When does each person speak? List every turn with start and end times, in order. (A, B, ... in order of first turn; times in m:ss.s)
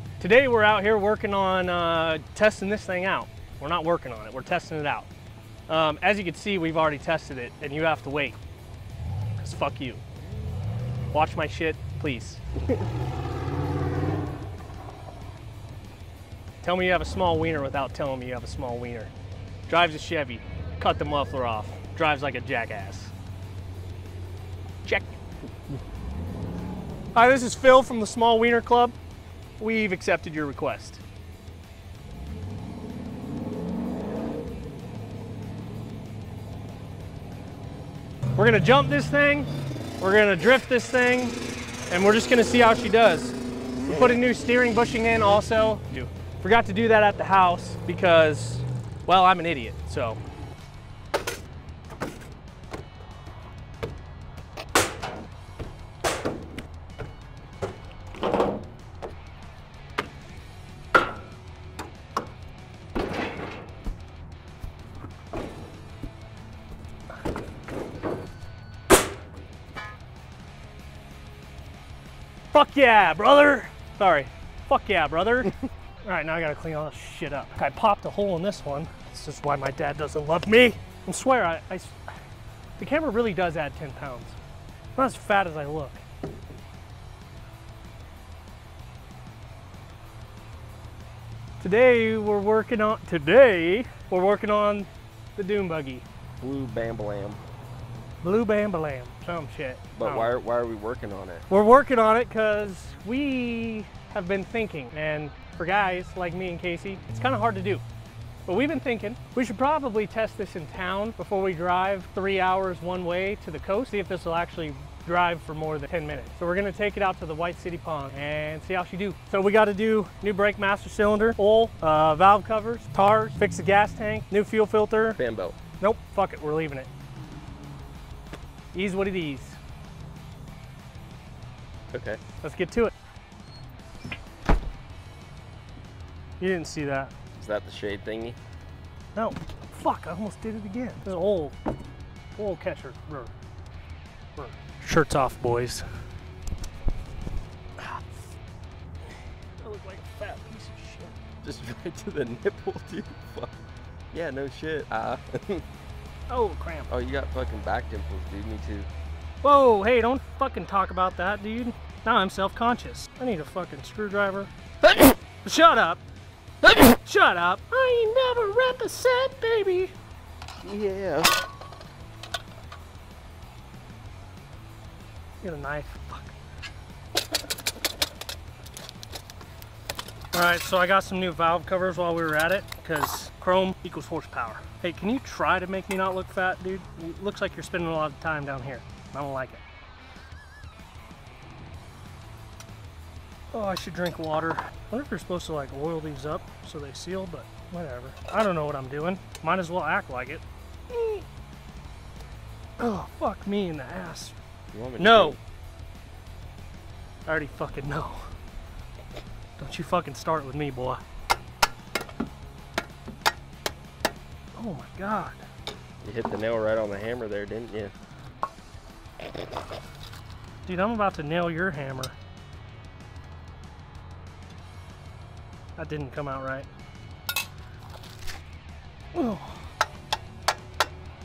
0:00.2-0:05.1 A
0:05.7-0:08.4 A
0:09.4-0:10.0 A
0:11.1-0:12.4 A
0:16.6-0:19.1 A
0:19.7-0:23.1 A
0:24.8-0:25.2 A
0:27.2-0:29.0 A
0:29.6-0:31.0 A
0:38.4-0:39.5 A
0:40.0-0:41.4 A
0:41.9-0:43.4 A
0:43.9-0:50.2 A
1:12.5-1:22.0 A
1:22.8-1:24.4 A
1:25.0-1:26.0 A
1:31.6-1:36.0 A
1:36.4-1:37.4 B
1:38.2-1:40.3 A
1:40.0-1:41.4 B
1:41.5-1:47.8 A
1:48.5-2:05.2 A
2:05.2-2:05.6 B
2:05.8-2:06.9 A
2:08.7-2:09.6 A
2:11.9-2:12.2 B
2:12.4-2:12.9 A
2:16.4-2:17.1 A
2:17.4-2:18.4 B
2:19.2-2:21.6 A
2:22.4-2:23.3 A
2:24.4-2:25.9 A
2:29.6-2:31.2 A
2:31.4-2:33.6 B
2:34.1-2:35.6 B
2:36.3-2:36.9 A
2:36.9-2:38.9 B
2:39.4-2:44.5 A
2:45.4-2:46.0 A
2:46.6-2:49.9 A
2:50.6-2:51.4 B
2:55.4-2:56.4 A
3:00.3-3:09.6 A
3:13.5-3:21.2 A
3:22.8-3:24.4 A
3:24.7-3:25.4 B
3:25.0-3:25.4 A
3:27.3-3:28.2 A
3:29.6-3:31.0 A
3:34.6-3:35.4 A
3:36.0-3:37.9 B
3:40.6-3:42.2 A
3:45.8-3:46.7 A
3:49.1-3:49.6 A